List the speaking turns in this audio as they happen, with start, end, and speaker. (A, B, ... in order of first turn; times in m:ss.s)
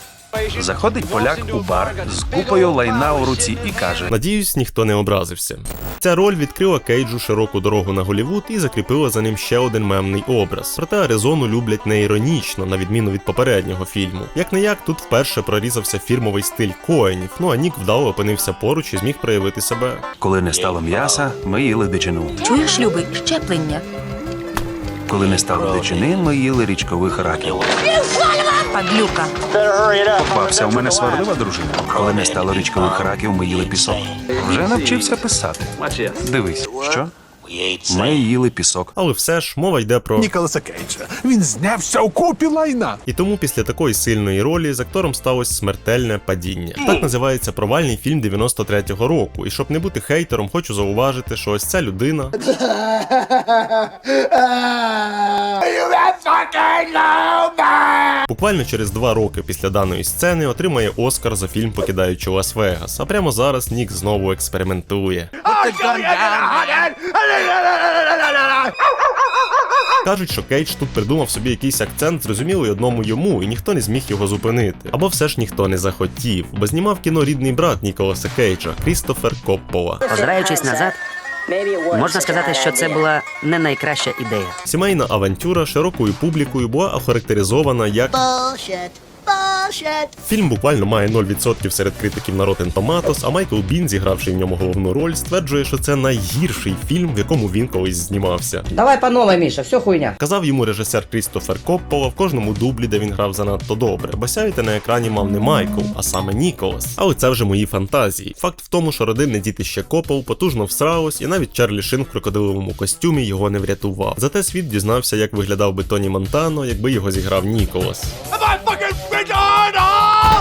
0:00.5-0:04.1 A
0:04.1-0:20.0 B
0:20.2-0:22.4 A
0:22.4-0:23.8 C
0:25.1-0:27.7 A
0:28.6-0:29.3 C
0:30.0-0:37.1 A
0:37.9-0:38.9 A
0:38.9-0:40.3 B
0:40.2-0:43.0 D
0:43.0-0:52.3 B
0:58.3-1:05.3 B
1:10.0-1:20.0 B
1:20.1-1:21.0 E
1:21.9-1:24.6 E
1:24.6-1:28.1 B
1:30.2-1:38.7 B
1:38.7-1:40.1 E
1:40.2-1:58.1 B